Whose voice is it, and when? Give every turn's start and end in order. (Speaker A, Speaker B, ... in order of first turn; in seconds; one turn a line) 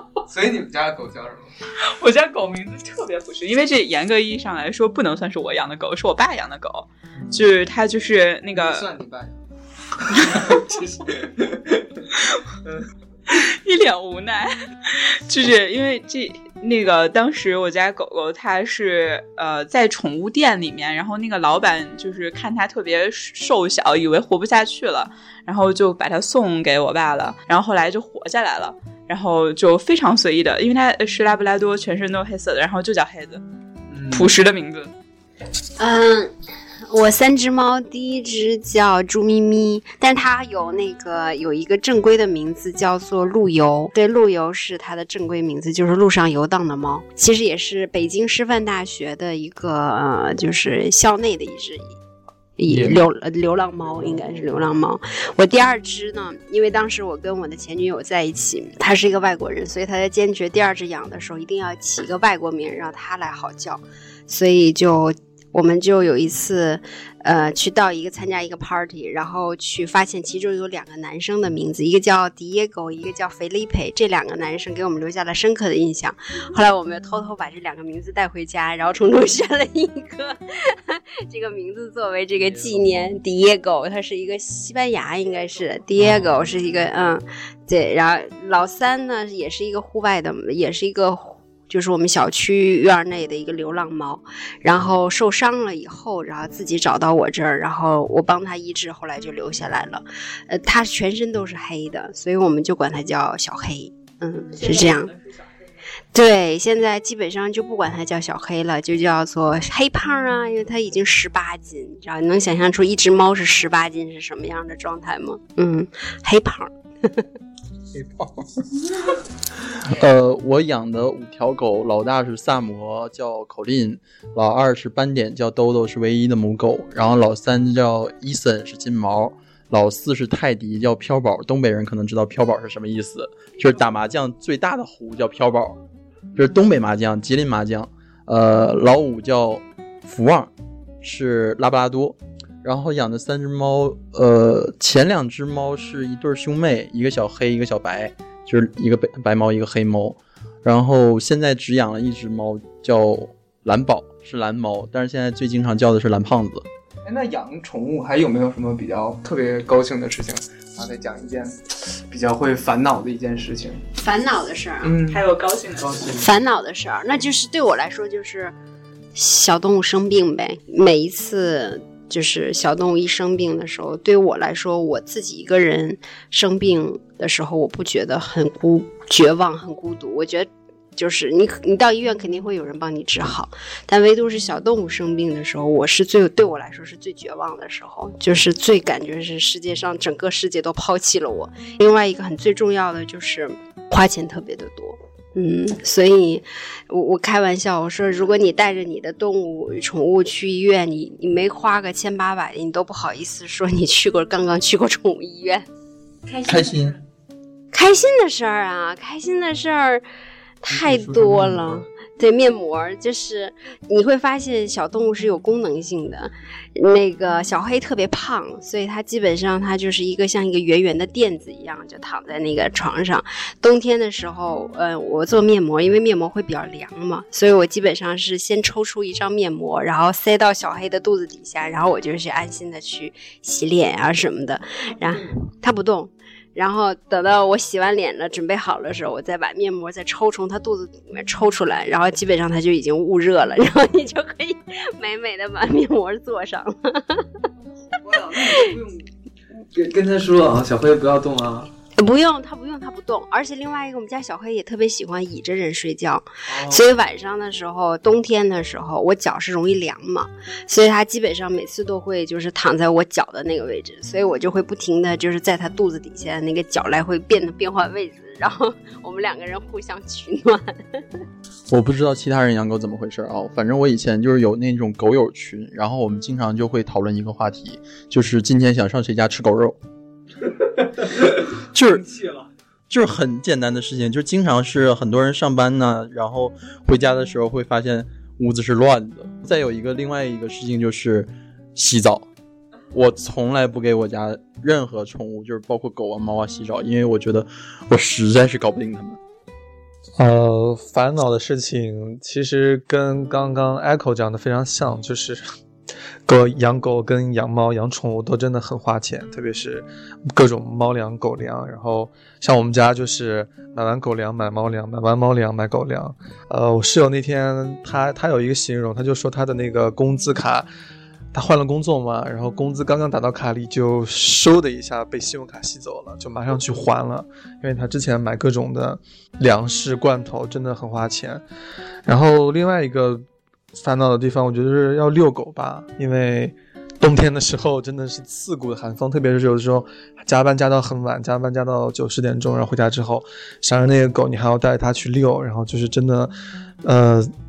Speaker A: 0.3-1.5
Speaker B: 1.8-8.9
Speaker A: 8.5-9.3
Speaker A: 10.1-11.8
Speaker B: 10.2-10.6
Speaker B: 12.1-12.4
Speaker B: 13.3-33.4
Speaker A: 33.9-34.3
Speaker B: 34.1-34.9
Speaker C: 35.8-36.3
Speaker C: 36.9-52.0
Speaker C: 52.6-105.1
Speaker D: 52.7-53.0
Speaker B: 104.6-105.5
Speaker C: 106.1-117.3
Speaker D: 117.9-118.8
Speaker D: 119.8-135.8
Speaker D: 136.3-140.5
Speaker D: 141.0-156.7
Speaker A: 157.0-163.8
Speaker C: 164.0-164.9
Speaker A: 164.8-165.3
Speaker B: 165.1-166.2
Speaker A: 165.8-166.3
Speaker C: 166.2-168.5
Speaker C: 169.1-205.7
Speaker C: 206.3-206.8
Speaker D: 206.4-206.9
Speaker C: 207.7-210.0
Speaker C: 210.6-247.4
Speaker D: 211.0-211.7
Speaker A: 247.9-249.1
Speaker A: 249.7-251.7
Speaker C: 252.0-271.2
Speaker A: 256.5-256.9
Speaker D: 271.7-279.8
Speaker D: 281.7-282.1
Speaker A: 282.0-282.5
Speaker D: 282.9-292.3
Speaker D: 292.9-299.2
Speaker E: 300.2-305.4
Speaker E: 306.3-320.7
Speaker E: 321.3-331.4
Speaker E: 332.1-333.2
Speaker E: 333.7-346.3
Speaker E: 346.9-347.3